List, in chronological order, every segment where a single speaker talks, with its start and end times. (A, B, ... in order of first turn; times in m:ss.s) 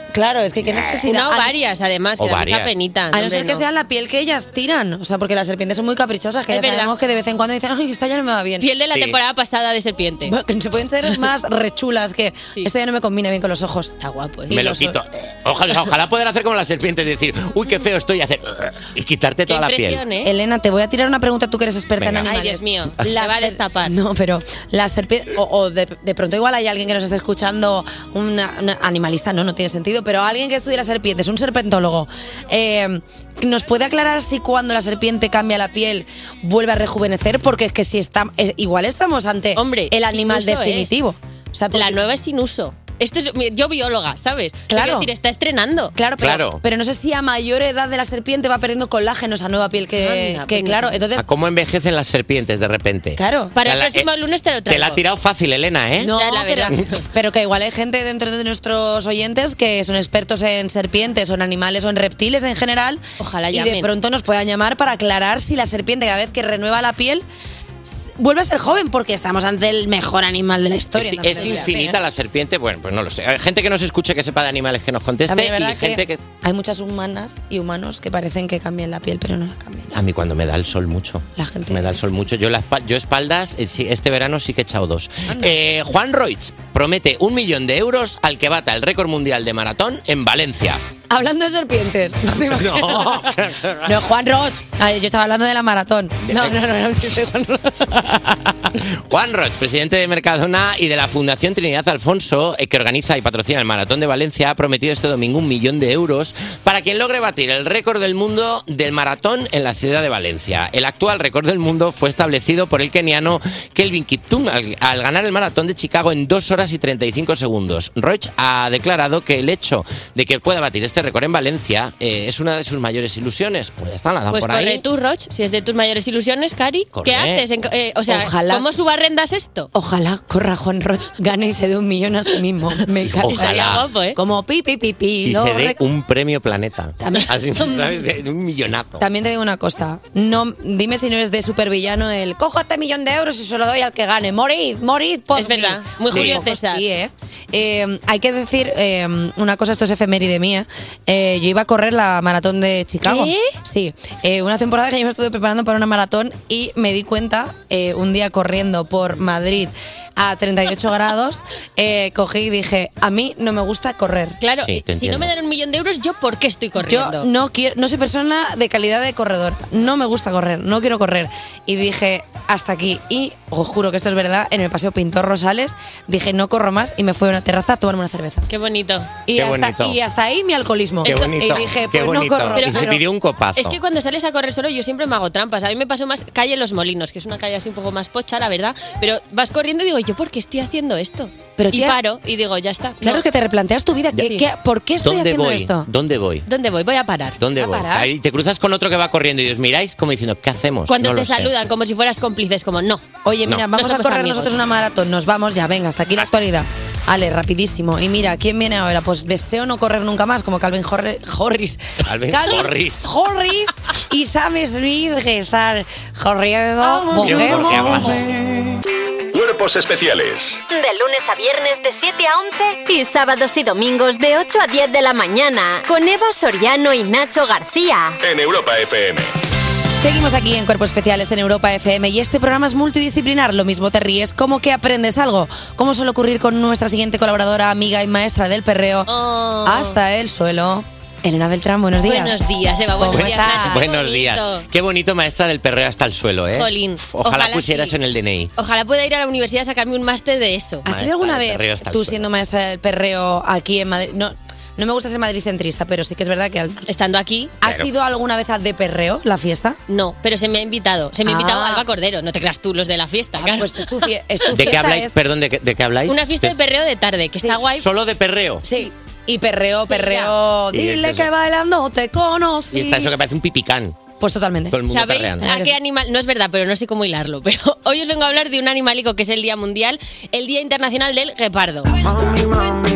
0:00.1-0:01.5 A
0:00.6-0:01.0 B
0:01.0-0:03.6 C
0:02.2-0:02.7 B
0:03.1-0:08.6 A
0:06.5-0:07.0 C
0:08.6-0:10.4 C
0:08.9-0:09.2 B
0:10.3-0:13.9 A
0:14.0-0:14.6 C
0:14.5-0:15.0 A
0:14.5-0:20.0 B
0:19.5-0:20.3 C
0:20.2-0:42.0 A
0:22.0-0:22.3 B
0:22.2-0:24.0 C
0:39.5-0:40.9 C
0:41.7-0:46.0 C
0:44.7-0:45.1 A
0:45.9-0:51.2 A
0:46.2-0:46.6 B
0:50.0-0:51.0 C
0:51.1-0:54.1 B
0:53.2-0:53.5 A
0:53.5-0:55.0 C
0:54.7-0:56.1 B
0:56.0-1:07.2 A
0:56.1-0:57.0 C
1:03.2-1:03.9 C
1:08.2-1:12.0 A
1:11.0-1:16.2 B
1:11.3-1:11.7 C
1:15.3-1:19.9 A
1:19.9-1:30.8 B
1:21.4-1:21.9 A
1:31.1-1:33.3 A
1:32.5-1:33.9 B
1:33.8-1:38.2 A
1:36.3-1:36.6 B
1:38.9-2:04.8 B
2:04.3-2:09.7 C
2:06.9-2:07.4 B
2:08.1-2:08.7 A
2:09.7-2:13.6 A
2:13.0-2:13.8 B
2:13.3-2:14.2 C
2:14.1-2:15.8 A
2:15.2-2:19.0 B
2:17.0-2:17.7 A
2:19.0-2:44.4 A
2:25.3-2:26.8 C
2:26.1-2:26.4 B
2:33.0-2:33.5 C
2:44.4-2:47.3 C
2:44.6-2:45.3 B
2:46.8-2:58.5 A
2:58.5-2:59.2 C
2:59.2-3:03.0 A
2:59.3-3:00.0 B
3:01.0-3:03.8 B
3:02.5-3:03.0 C
3:03.6-3:13.2 C
3:11.6-3:12.0 A
3:13.0-3:15.8 A
3:14.2-3:14.5 C
3:15.0-3:16.5 B
3:16.5-3:17.4 C
3:17.4-3:21.5 B
3:17.6-3:18.1 A
3:20.9-3:23.1 C
3:23.2-3:38.2 A
3:23.7-3:24.5 C
3:32.0-3:33.0 B
3:37.1-3:38.4 B
3:39.3-3:40.6 D
3:40.7-3:48.2 E
3:48.2-3:49.3 D
3:50.0-3:59.1 A
3:59.1-4:00.0 C
3:59.6-4:02.4 A
4:02.0-4:04.7 C
4:02.9-4:03.8 A
4:03.1-4:08.5 B
4:06.5-4:08.0 C
4:08.6-4:10.9 C
4:10.8-4:16.9 A
4:10.9-4:12.2 B
4:16.9-4:17.6 C
4:17.6-4:19.8 A
4:17.6-4:17.9 B
4:19.9-4:24.7 C
4:21.2-4:21.8 A
4:23.4-4:25.2 A
4:24.5-4:26.5 B
4:26.0-4:27.9 C
4:27.6-4:28.6 B
4:28.6-4:33.1 A
4:29.9-4:30.4 C
4:30.7-4:31.3 B
4:32.7-4:34.0 B
4:34.2-4:34.8 A
4:34.7-4:35.4 B
4:34.9-4:42.0 C
4:35.4-4:35.7 A